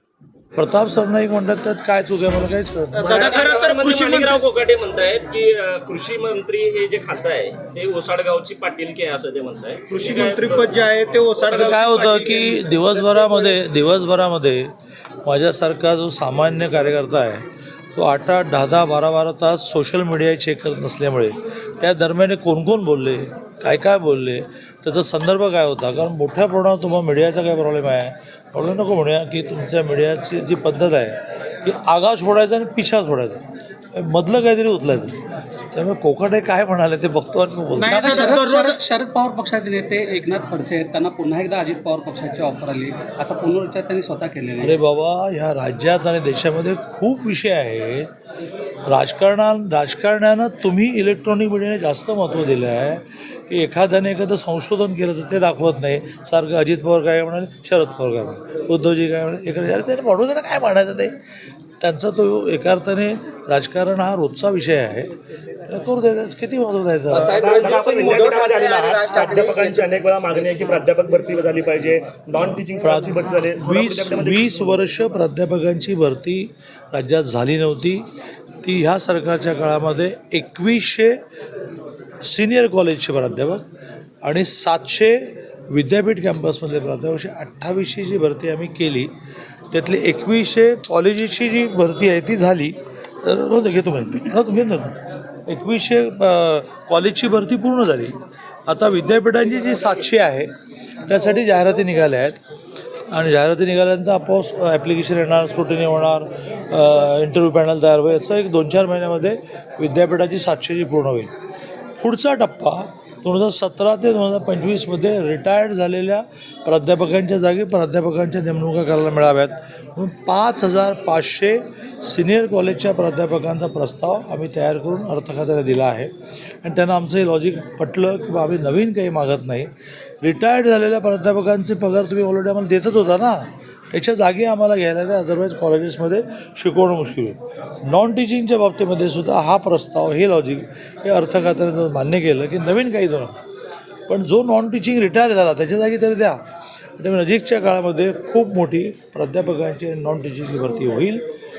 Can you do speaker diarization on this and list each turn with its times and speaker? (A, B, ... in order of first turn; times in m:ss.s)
0:00.6-0:03.2 A
0:03.0-0:04.4 B
0:03.0-0:10.7 C
0:09.9-0:12.4 B
0:11.4-0:13.5 C
0:11.5-0:14.7 A
0:15.2-0:17.4 A
0:18.0-0:33.4 A
0:33.9-0:35.2 A
0:35.7-0:38.2 A
0:37.8-0:38.8 B
0:37.9-0:44.8 D
0:44.6-0:48.1 A
0:48.9-1:01.1 A
1:01.8-1:05.1 A
1:05.6-1:07.4 A
1:07.1-1:09.9 C
1:07.1-1:14.8 E
1:12.8-1:18.0 A
1:18.6-1:21.2 A
1:22.2-1:23.6 A
1:24.2-1:29.1 A
1:29.7-1:34.9 A
1:35.5-1:38.2 A
1:38.7-1:40.5 A
1:41.1-1:42.4 A
1:43.1-1:51.3 A
1:52.0-2:06.1 A
2:06.6-2:09.7 A
2:10.2-2:23.3 A
2:24.1-2:26.4 A
2:27.0-2:31.2 A